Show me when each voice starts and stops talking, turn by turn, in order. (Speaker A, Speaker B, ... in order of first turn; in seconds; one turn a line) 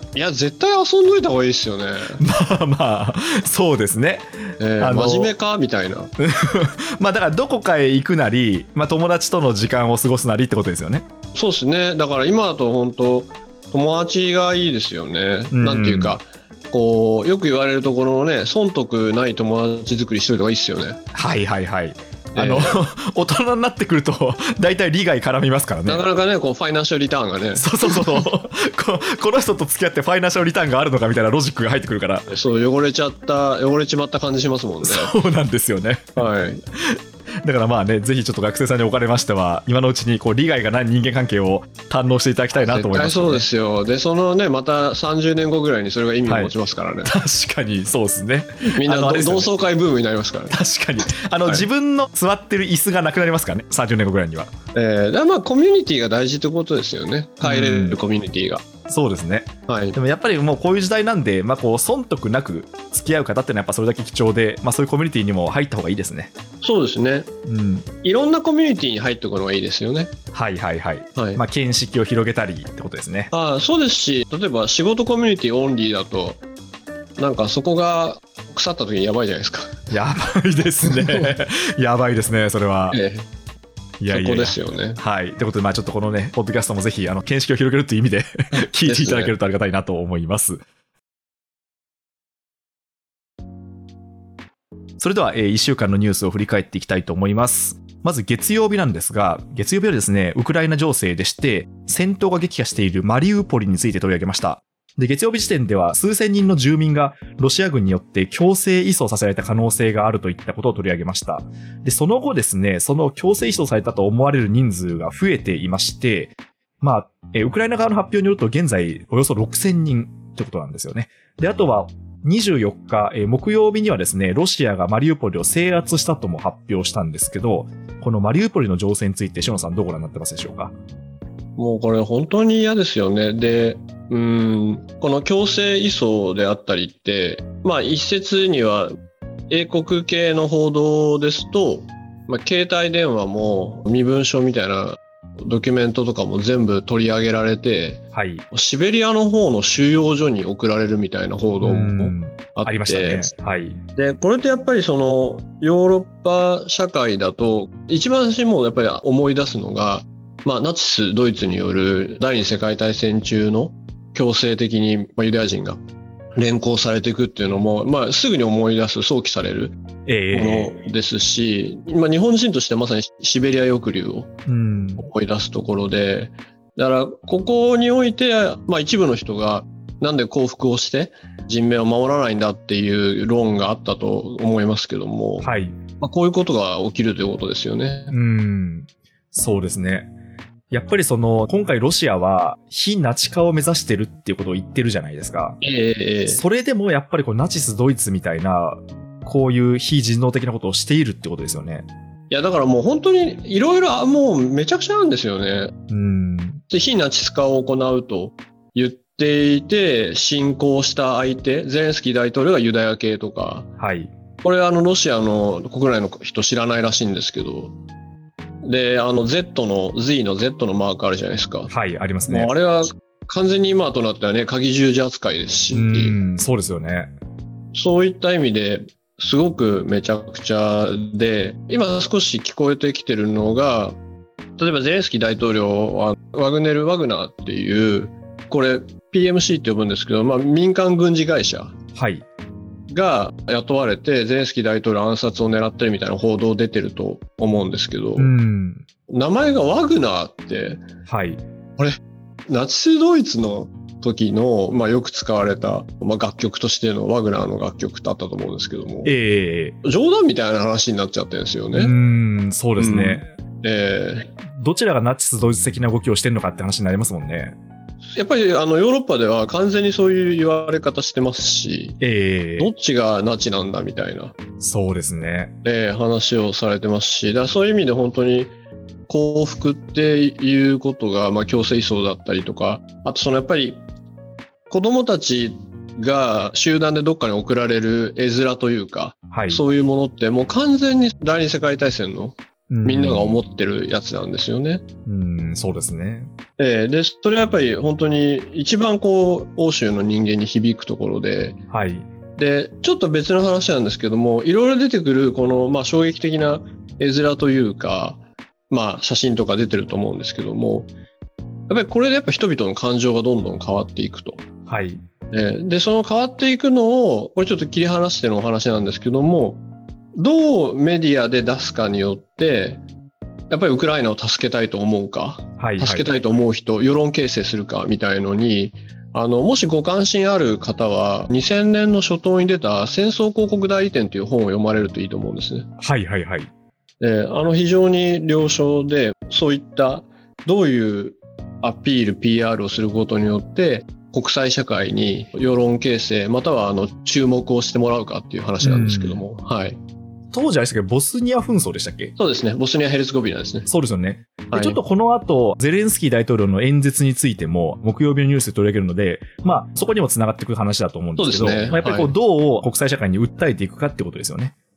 Speaker A: 0.1-2.2
Speaker B: 2.2-5.3
Speaker A: 4.6-6.1
Speaker B: 6.2-11.1
Speaker A: 11.3-21.0
Speaker B: 15.5-16.2
Speaker B: 21.1-26.0
Speaker A: 22.4-22.8
Speaker A: 25.9-28.2
Speaker B: 27.6-32.3
Speaker A: 32.3-35.1
Speaker B: 34.8-43.5
Speaker A: 36.2-36.6
Speaker A: 42.5-47.1
Speaker B: 46.3-46.5
Speaker B: 47.0-49.5
Speaker A: 48.6-50.6
Speaker B: 50.5-54.5
Speaker A: 54.8-58.6
Speaker B: 57.4-58.0
Speaker B: 58.9-66.3
Speaker A: 59.7-60.0
Speaker A: 66.6-67.3
Speaker B: 67.5-67.9
Speaker A: 68.0-70.1
Speaker B: 70.3-73.3
Speaker A: 71.2-71.4
Speaker A: 73.3-76.4
Speaker A: 77.2-79.8
Speaker B: 79.9-83.0
Speaker A: 82.9-83.3
Speaker B: 84.0-90.6
Speaker A: 84.1-85.0
Speaker A: 88.6-89.3
Speaker B: 95.0-130.7
Speaker A: 131.6-138.9
Speaker A: 139.5-153.3
Speaker B: 148.1-148.4
Speaker B: 151.6-153.8
Speaker A: 154.0-165.8
Speaker A: 166.4-169.8
Speaker B: 170.1-170.8
Speaker A: 170.3-174.3
Speaker B: 174.5-175.1
Speaker A: 175.0-188.2
Speaker B: 185.4-185.8
Speaker B: 188.1-190.1
Speaker B: 190.7-195.6
Speaker A: 195.6-196.4
Speaker B: 196.3-201.9
Speaker A: 202.3-205.7
Speaker B: 205.9-206.6
Speaker A: 206.7-213.7
Speaker B: 213.8-214.1
Speaker A: 214.4-217.7
Speaker A: 218.6-221.7
Speaker B: 221.7-222.5
Speaker A: 222.3-226.2
Speaker B: 225.7-227.1
Speaker A: 227.7-234.0
Speaker A: 234.6-241.8
Speaker B: 241.9-242.2
Speaker A: 242.9-248.3
Speaker B: 248.2-248.8
Speaker A: 249.1-250.8
Speaker B: 251.1-251.4
Speaker A: 251.8-259.1
Speaker B: 259.1-259.8
Speaker A: 259.8-261.9
Speaker B: 261.7-263.3
Speaker A: 262.8-264.3
Speaker B: 264.4-267.6
Speaker A: 268.1-272.0
Speaker B: 272.0-272.7
Speaker A: 272.6-274.4
Speaker B: 274.6-275.6
Speaker A: 275.6-278.5
Speaker A: 279.1-283.8
Speaker A: 284.7-294.8
Speaker B: 289.3-289.6
Speaker B: 292.7-293.4
Speaker B: 295.1-296.3
Speaker A: 296.6-301.6
Speaker B: 301.7-302.1
Speaker A: 302.4-310.9
Speaker A: 311.7-314.4
Speaker B: 314.7-315.0
Speaker A: 315.3-319.6
Speaker A: 320.1-322.8
Speaker A: 323.5-335.7
Speaker B: 325.6-326.1
Speaker B: 335.8-336.5
Speaker A: 337.0-349.8
Speaker B: 348.6-349.2
Speaker B: 350.3-352.1
Speaker A: 352.2-353.7
Speaker B: 353.7-364.5
Speaker A: 354.5-354.8
Speaker A: 361.2-362.1